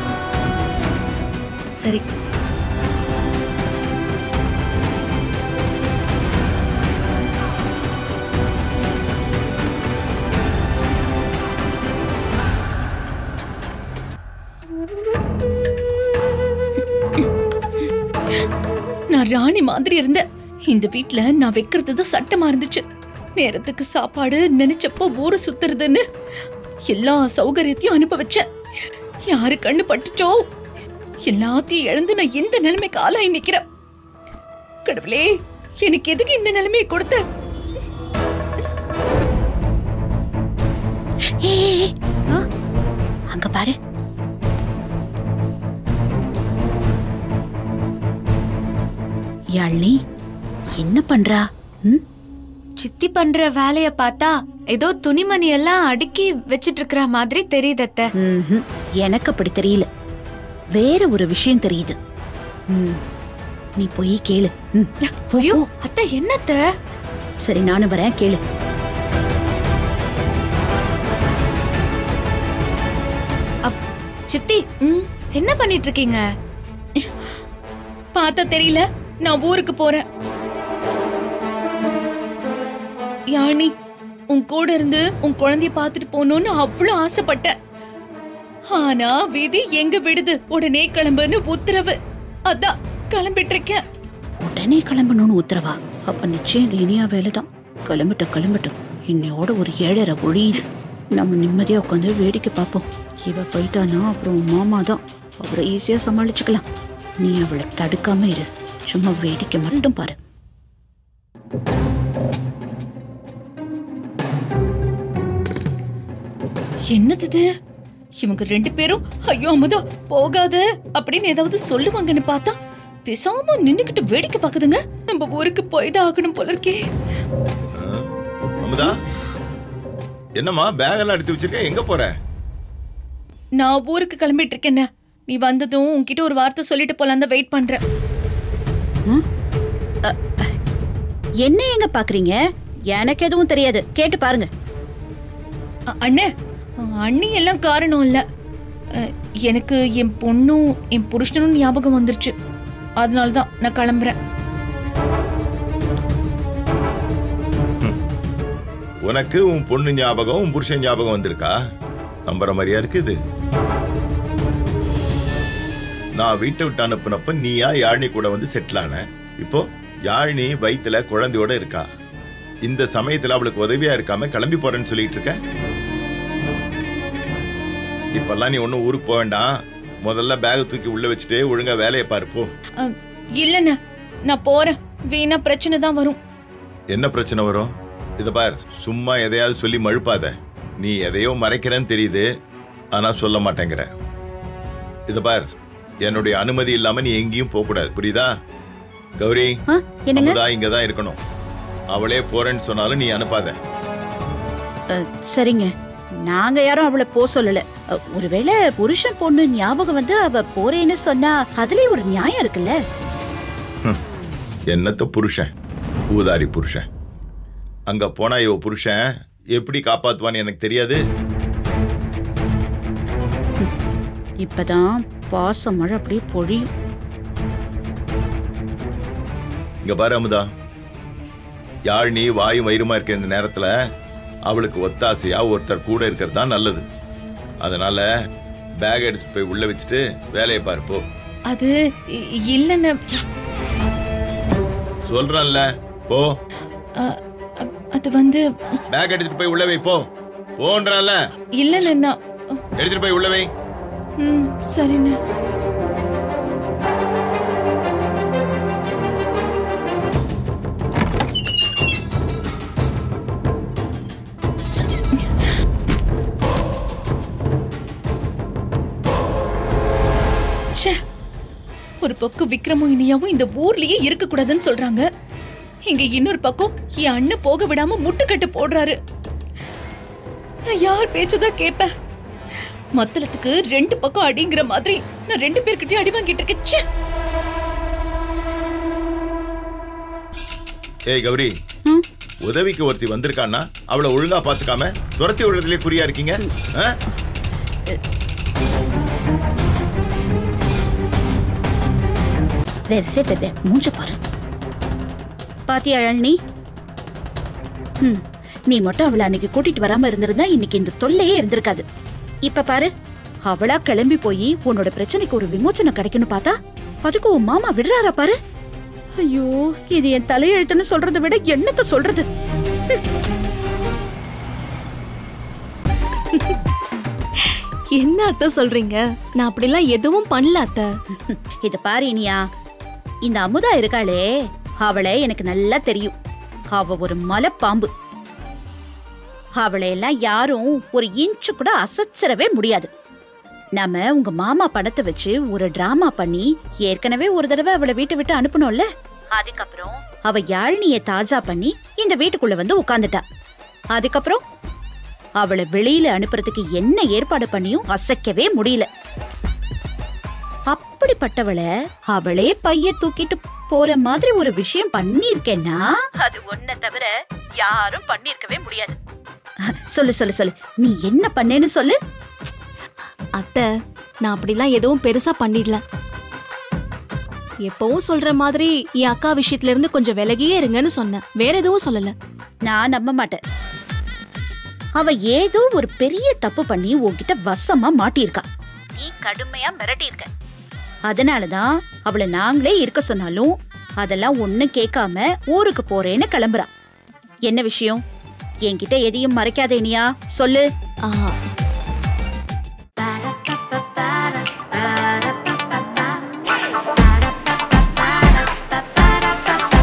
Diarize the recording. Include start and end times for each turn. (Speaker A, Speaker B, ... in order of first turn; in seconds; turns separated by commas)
Speaker A: 19.1-22.8, Speaker A: 23.4-26.0, Speaker A: 26.9-28.4, Speaker A: 29.3-30.4, Speaker A: 31.3-33.6, Speaker A: 34.9-37.2, Speaker B: 41.4-41.9, Speaker B: 43.3-43.7, Speaker B: 49.6-49.9, Speaker B: 50.8-52.0, Speaker C: 52.8-58.1, Speaker B: 58.2-59.9, Speaker B: 60.8-62.0, Speaker B: 62.7-63.0, Speaker B: 63.8-65.7, Speaker C: 65.4-66.6, Speaker B: 67.4-68.4, Speaker C: 73.6-74.6, Speaker C: 75.3-76.2, Speaker A: 78.1-80.0, Speaker A: 83.3-83.7, Speaker A: 84.3-87.5, Speaker A: 88.8-92.0, Speaker A: 92.5-93.8, Speaker B: 94.4-106.6, Speaker B: 107.2-110.2, Speaker A: 116.9-117.4, Speaker A: 118.2-122.5, Speaker A: 123.1-126.8, Speaker D: 127.7-128.1, Speaker D: 128.6-128.9, Speaker D: 130.4-132.1, Speaker A: 133.6-137.8, Speaker B: 140.1-140.5, Speaker B: 141.4-142.4, Speaker B: 142.9-144.5, Speaker A: 146.0-146.3, Speaker A: 147.0-148.2, Speaker A: 149.5-152.3, Speaker A: 153.0-154.1, Speaker D: 159.0-161.5, Speaker D: 162.3-163.2, Speaker D: 166.2-171.8, Speaker D: 172.6-175.4, Speaker D: 178.1-179.5, Speaker D: 180.0-182.5, Speaker A: 183.4-183.8, Speaker A: 184.3-186.2, Speaker D: 186.9-192.2, Speaker D: 192.9-193.9, Speaker D: 195.1-195.4, Speaker D: 196.0-198.3, Speaker D: 199.2-199.5, Speaker B: 199.7-200.4, Speaker D: 200.1-201.2, Speaker D: 201.9-203.5, Speaker B: 205.1-205.7, Speaker B: 206.3-207.6, Speaker B: 208.2-212.7, Speaker D: 214.7-215.5, Speaker D: 216.1-216.8, Speaker D: 217.9-219.0, Speaker D: 219.6-221.0, Speaker B: 224.4-226.6, Speaker D: 229.8-230.4, Speaker D: 231.9-233.7, Speaker D: 234.5-236.8, Speaker D: 237.6-238.0, Speaker D: 238.8-241.0, Speaker A: 242.5-243.2, Speaker D: 245.1-246.3, Speaker A: 247.0-248.4, Speaker D: 248.9-250.0, Speaker D: 250.6-251.2, Speaker A: 251.6-252.2, Speaker D: 252.8-253.5, Speaker A: 254.2-255.2, Speaker A: 272.0-275.0, Speaker A: 275.9-278.9, Speaker A: 280.7-281.9, Speaker A: 283.0-286.8, Speaker D: 291.1-291.5, Speaker D: 292.4-296.9, Speaker B: 302.9-304.2, Speaker B: 305.7-306.3, Speaker B: 308.0-311.8, Speaker B: 312.5-312.9, Speaker B: 313.5-316.5, Speaker B: 317.0-318.3, Speaker B: 319.2-322.2, Speaker E: 327.9-330.9, Speaker B: 331.1-332.4, Speaker B: 333.3-334.2, Speaker B: 334.8-336.1, Speaker B: 336.7-337.9, Speaker B: 339.6-342.9, Speaker B: 343.8-348.8, Speaker B: 349.4-353.2, Speaker B: 353.9-354.4, Speaker B: 355.4-358.9, Speaker B: 360.7-368.9, Speaker B: 369.9-371.9, Speaker E: 373.4-373.6, Speaker E: 374.2-375.8, Speaker E: 377.7-382.1, Speaker B: 382.7-383.4, Speaker B: 385.0-388.4, Speaker B: 389.0-390.3, Speaker B: 391.1-393.5, Speaker B: 394.0-396.7, Speaker B: 397.5-398.0, Speaker B: 398.7-400.6, Speaker E: 401.1-401.3